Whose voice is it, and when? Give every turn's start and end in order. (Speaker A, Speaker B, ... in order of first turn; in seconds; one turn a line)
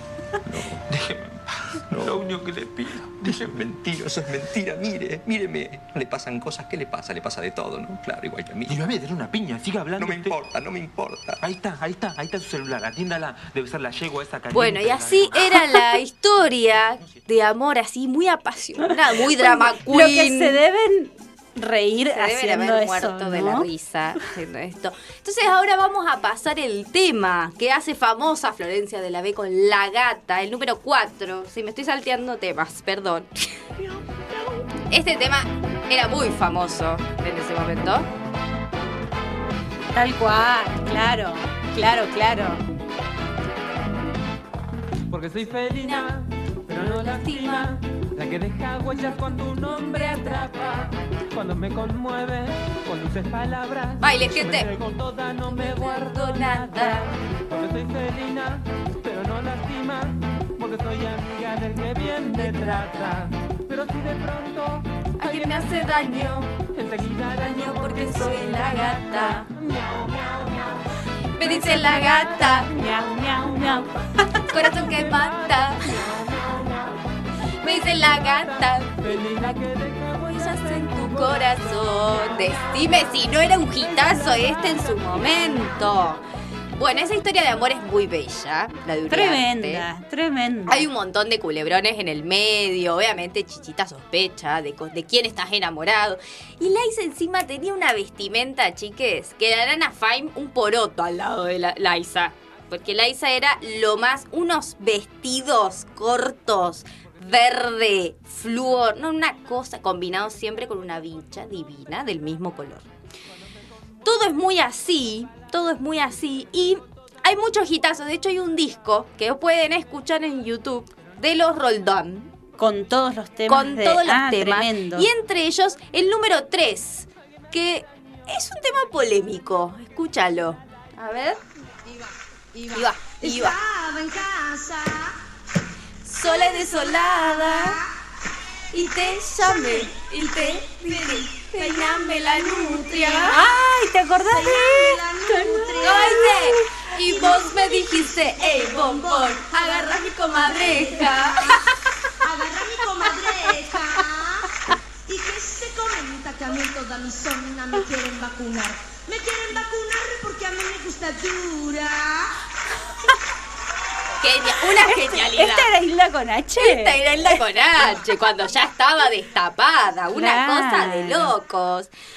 Speaker A: 0.4-0.9
Speaker B: 0.8-3.6
Speaker A: 1.9-2.3
Speaker A: 3.2-8.9
Speaker B: 8.6-10.4
Speaker A: 10.0-11.4
Speaker B: 11.4-15.8
Speaker C: 14.5-20.6
Speaker D: 19.2-23.7
Speaker C: 22.1-33.3
Speaker D: 34.0-34.6
Speaker C: 34.9-38.0
Speaker D: 39.9-42.6
Speaker E: 45.1-45.4
Speaker C: 45.7-46.2
Speaker C: 46.7-47.8
Speaker E: 48.2-49.2
Speaker E: 49.8-50.6
Speaker C: 49.9-50.8
Speaker E: 51.4-53.7
Speaker C: 54.0-57.2
Speaker E: 59.3-60.1
Speaker E: 60.9-61.9
Speaker E: 64.5-64.8
Speaker C: 65.2-69.5
Speaker C: 71.3-72.7
Speaker D: 72.6-75.0
Speaker C: 74.5-76.0
Speaker C: 77.6-86.2
Speaker C: 86.7-89.8
Speaker D: 89.1-90.9
Speaker C: 90.7-112.8
Speaker C: 114.0-122.3
Speaker D: 122.6-125.1
Speaker C: 123.5-131.4
Speaker C: 132.7-133.6
Speaker F: 133.3-135.1
Speaker C: 136.0-137.8
Speaker C: 138.7-143.4
Speaker D: 143.3-146.6
Speaker F: 144.6-145.6
Speaker C: 145.8-151.7
Speaker F: 152.3-154.0
Speaker D: 152.8-153.9
Speaker F: 155.1-162.0
Speaker C: 164.2-165.7
Speaker D: 164.7-167.4
Speaker C: 166.6-171.9
Speaker D: 170.1-171.3